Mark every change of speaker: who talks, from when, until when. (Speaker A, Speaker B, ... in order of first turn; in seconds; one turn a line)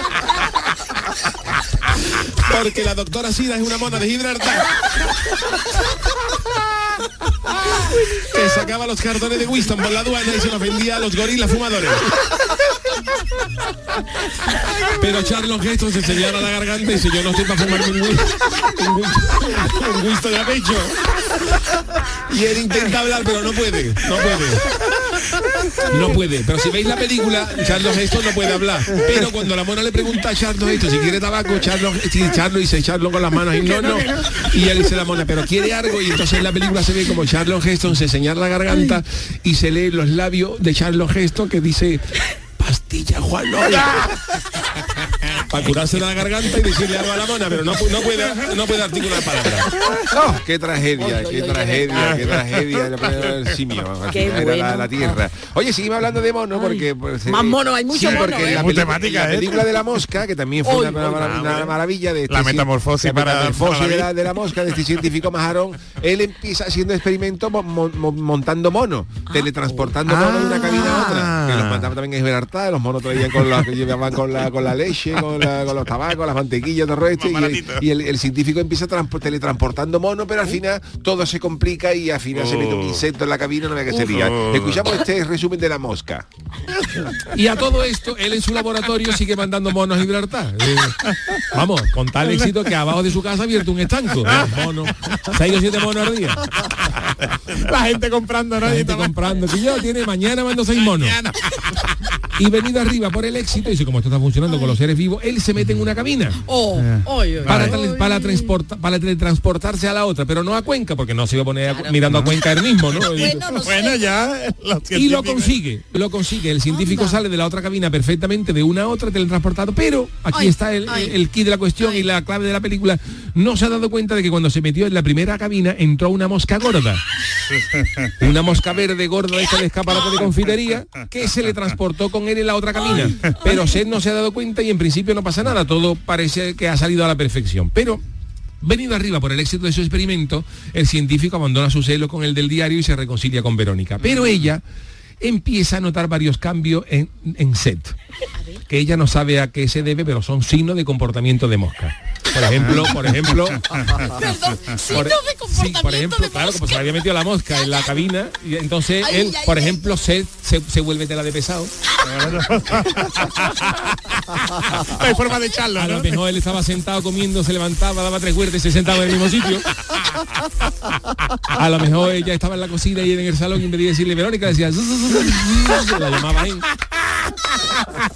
Speaker A: 2.4-5.1
Speaker A: 8.2-12.1
Speaker A: 14.8-21.5
Speaker A: 22.3-24.8
Speaker A: 25.8-44.4
Speaker A: 45.5-86.3
Speaker B: 51.0-52.3
Speaker C: 52.0-53.3
Speaker B: 54.1-55.2
Speaker B: 56.5-58.9
Speaker C: 58.0-59.8
Speaker B: 60.6-61.4
Speaker C: 61.2-61.8
Speaker C: 62.3-64.1
Speaker B: 69.3-70.0
Speaker C: 70.0-71.9
Speaker B: 70.5-71.2
Speaker C: 77.1-77.8
Speaker C: 82.3-83.0
Speaker C: 83.9-84.9
Speaker A: 87.3-96.5
Speaker C: 94.3-94.6
Speaker C: 96.9-99.4
Speaker A: 98.6-101.2
Speaker C: 100.7-101.8
Speaker A: 102.4-106.4
Speaker B: 104.5-104.8
Speaker B: 106.5-108.5
Speaker C: 106.8-107.8
Speaker A: 107.5-113.7
Speaker B: 111.6-112.0
Speaker B: 113.1-113.9
Speaker C: 113.7-115.6
Speaker A: 114.9-127.0
Speaker B: 116.7-117.2
Speaker B: 120.3-121.2
Speaker B: 121.8-122.1
Speaker C: 127.6-128.1
Speaker A: 128.2-138.0
Speaker A: 138.6-144.6
Speaker A: 145.2-148.0
Speaker A: 148.7-153.8
Speaker C: 152.6-152.9
Speaker C: 153.7-154.8
Speaker B: 154.1-156.6
Speaker A: 154.9-161.7
Speaker B: 159.1-159.6
Speaker C: 162.0-164.2
Speaker C: 164.8-166.2
Speaker A: 165.8-169.7
Speaker A: 171.5-176.7